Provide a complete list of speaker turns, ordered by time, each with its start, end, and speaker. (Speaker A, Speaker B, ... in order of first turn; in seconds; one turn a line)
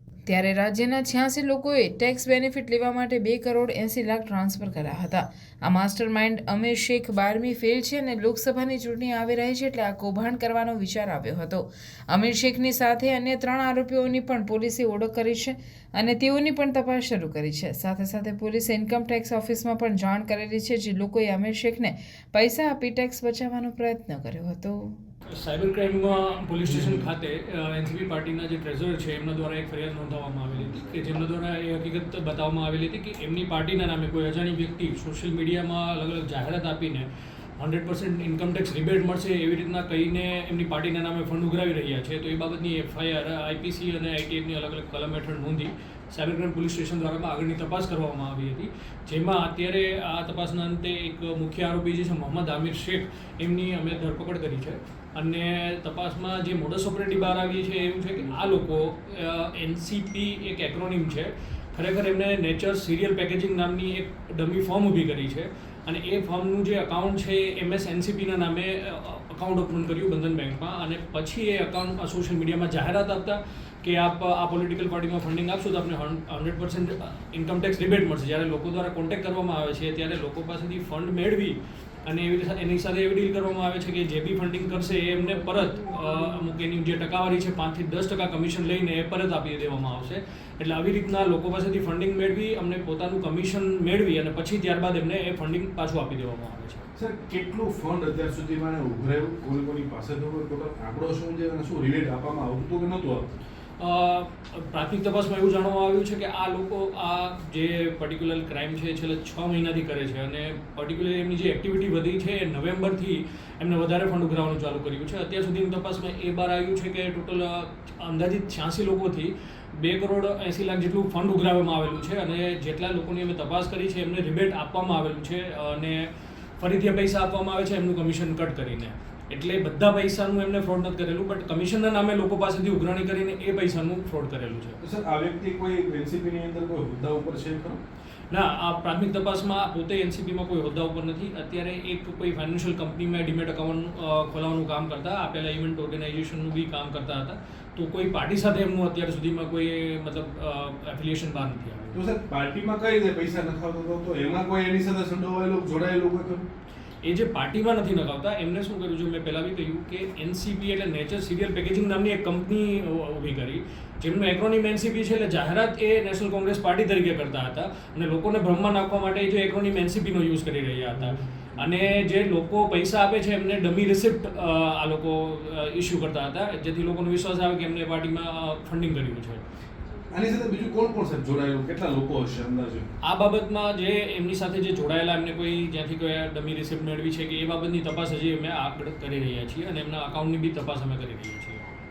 Speaker A: 0.3-24.8
Speaker B: 25.3-37.1
Speaker B: 37.6-96.8
Speaker C: 97.0-103.3
Speaker B: 103.8-134.8
Speaker C: 134.8-137.8
Speaker B: 138.3-152.0
Speaker C: 151.9-156.5
Speaker B: 157.0-179.4
Speaker C: 180.1-182.9
Speaker B: 183.0-191.7